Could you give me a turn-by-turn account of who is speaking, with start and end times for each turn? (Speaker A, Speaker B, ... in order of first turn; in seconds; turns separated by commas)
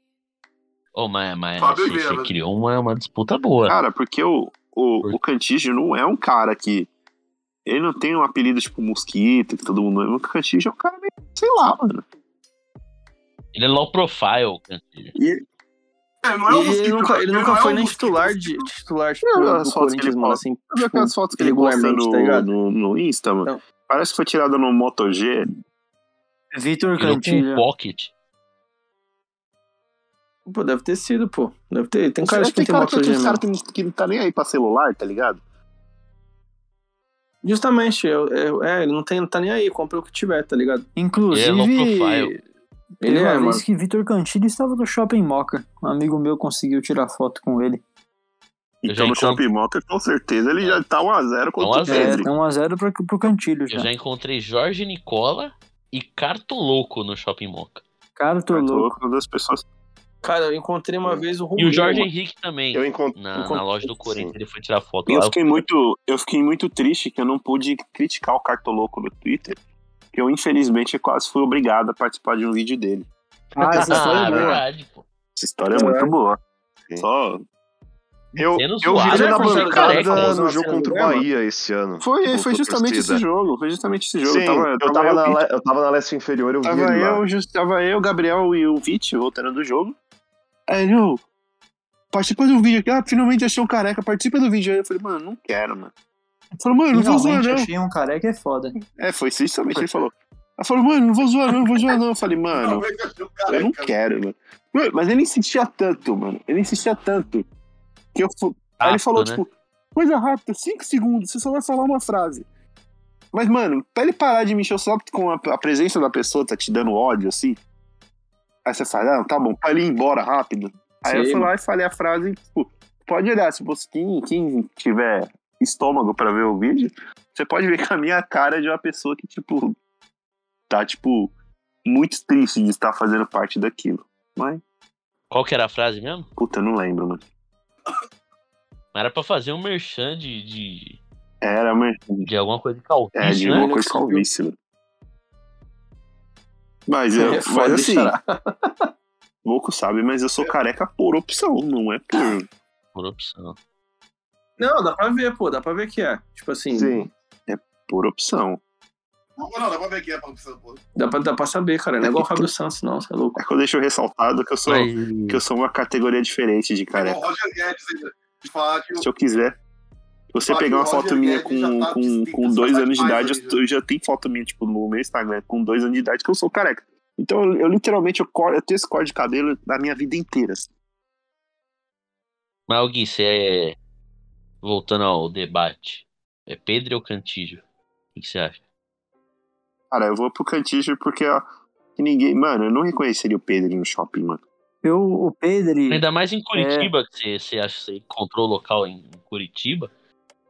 Speaker A: 0.9-3.8, Speaker B: 1.6-2.3, Speaker C: 3.7-6.9, Speaker C: 7.7-12.0, Speaker A: 13.5-15.1, Speaker D: 15.2-15.4, Speaker B: 16.2-18.6, Speaker D: 16.5-22.5, Speaker C: 19.2-25.5, Speaker E: 26.5-27.6, Speaker A: 27.0-28.1, Speaker D: 30.5-33.4, Speaker C: 32.2-35.4, Speaker D: 37.4-40.9, Speaker E: 41.0-42.4, Speaker A: 41.3-42.3, Speaker E: 43.0-47.8, Speaker D: 43.0-43.6, Speaker C: 48.8-52.3, Speaker A: 48.9-49.4, Speaker A: 51.6-52.2, Speaker E: 51.9-53.9, Speaker A: 53.7-57.8, Speaker E: 58.2-59.0, Speaker C: 58.5-59.6, Speaker D: 60.2-62.1, Speaker A: 61.6-65.6, Speaker F: 62.7-64.3, Speaker C: 65.1-69.6, Speaker C: 70.1-73.1, Speaker E: 73.6-74.6, Speaker A: 73.7-75.0, Speaker C: 74.0-74.5, Speaker C: 75.4-76.4, Speaker D: 75.8-76.1, Speaker C: 77.0-77.4, Speaker F: 78.4-83.2, Speaker A: 78.6-80.4, Speaker D: 79.0-81.3, Speaker C: 82.0-85.4, Speaker F: 84.2-87.2, Speaker C: 86.6-90.0, Speaker C: 90.7-91.2, Speaker C: 92.1-95.9, Speaker C: 96.6-97.7, Speaker E: 96.9-98.8, Speaker C: 99.0-102.9, Speaker B: 102.5-103.9, Speaker C: 103.5-107.5, Speaker C: 108.1-112.5, Speaker A: 108.8-109.4, Speaker C: 113.3-117.6, Speaker C: 118.7-129.8, Speaker D: 121.1-121.5, Speaker C: 130.7-131.3, Speaker C: 131.8-134.6, Speaker A: 135.3-136.3, Speaker C: 136.4-137.2, Speaker A: 138.9-141.0, Speaker C: 141.4-142.3, Speaker A: 142.2-143.7, Speaker C: 143.2-144.6, Speaker D: 143.4-144.2, Speaker C: 146.9-148.1, Speaker D: 147.2-148.9, Speaker C: 149.4-152.5, Speaker A: 152.9-153.6, Speaker D: 154.6-157.1, Speaker F: 156.7-157.1, Speaker C: 157.5-158.6, Speaker B: 159.4-160.8, Speaker D: 161.0-163.4, Speaker C: 162.0-162.5, Speaker C: 163.4-167.2, Speaker A: 164.7-165.4, Speaker B: 166.9-169.1, Speaker C: 169.0-169.6, Speaker C: 170.3-180.7, Speaker B: 170.5-173.6, Speaker A: 182.7-183.8, Speaker A: 184.6-187.6, Speaker A: 188.2-188.6, Speaker C: 189.9-194.4, Speaker E: 194.8-196.0, Speaker A: 195.9-199.9, Speaker E: 196.5-196.9